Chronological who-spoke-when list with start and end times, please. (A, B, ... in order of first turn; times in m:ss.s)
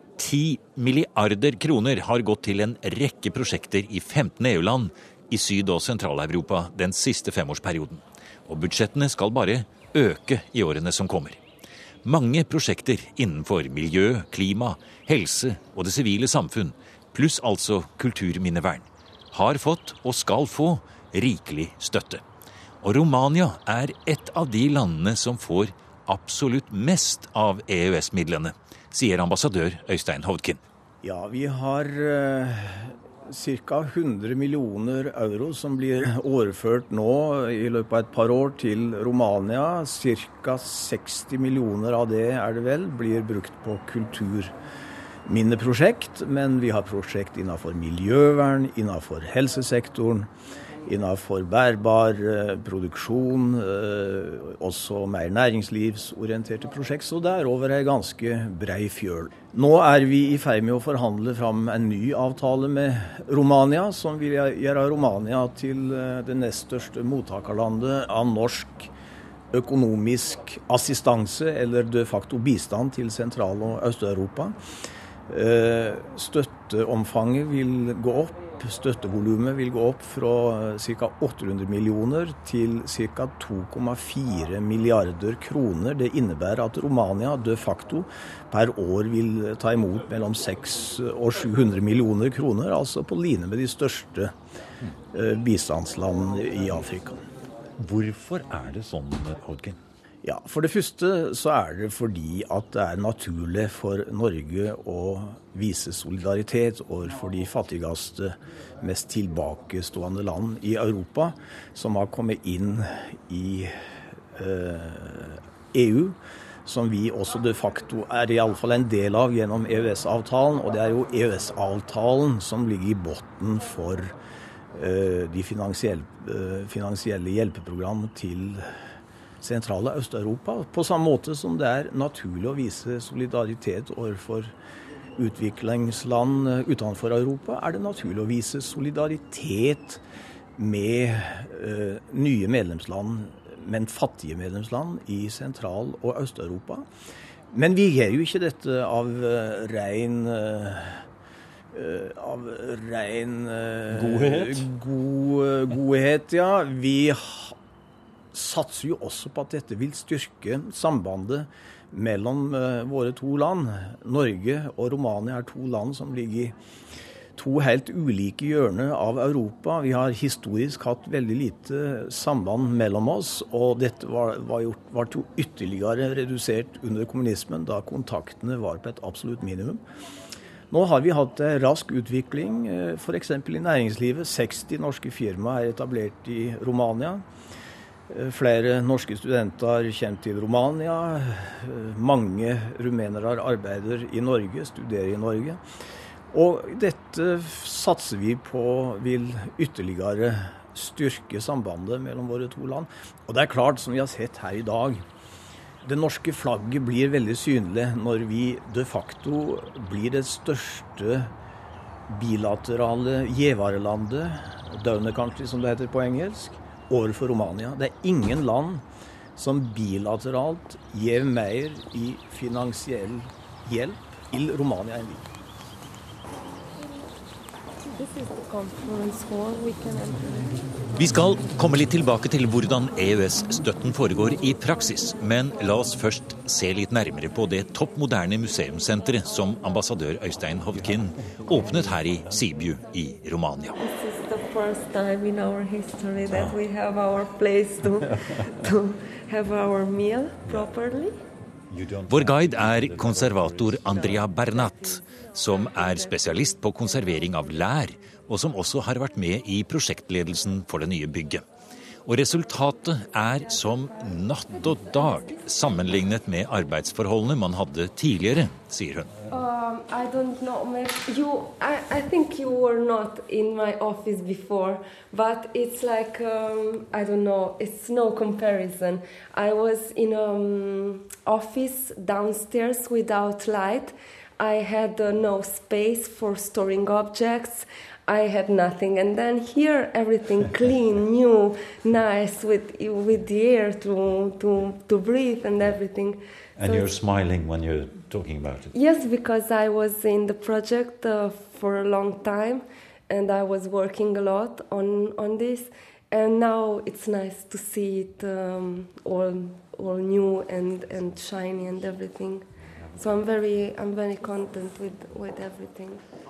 0:00.2-0:11.4 A
0:12.0-0:22.2 A
0:22.8-0:30.6 A
0:31.0-0:44.5 B
0:45.2-0:50.3 B
0:50.8-1:08.9 B
1:09.5-1:14.6 B
1:15.3-1:34.3 B
1:35.1-1:37.2 B
1:37.8-1:39.8 A
1:40.2-1:53.7 B
1:54.3-2:04.1 B
2:04.7-2:08.7 B
2:09.4-2:14.5 B
2:15.2-2:20.0 B
2:20.6-2:26.9 B
2:27.5-2:31.1 B
2:31.7-2:37.6 B
2:33.9-2:34.6 A
2:38.3-2:46.6 B
2:47.4-2:59.8 B
3:00.7-3:07.2 B
3:08.1-3:15.6 B
3:16.3-3:25.0 B
3:25.8-3:31.3 B
3:32.1-3:38.8 B
3:39.4-3:45.3 B
3:47.9-3:50.4 C
3:51.0-4:03.8 A
4:03.8-4:11.2 C
4:06.3-4:06.5 A
4:11.7-4:21.4 A
4:14.0-4:14.3 C
4:22.0-4:29.2 A
4:29.3-4:56.9 C
4:56.6-4:58.7 A
4:58.7-5:16.0 C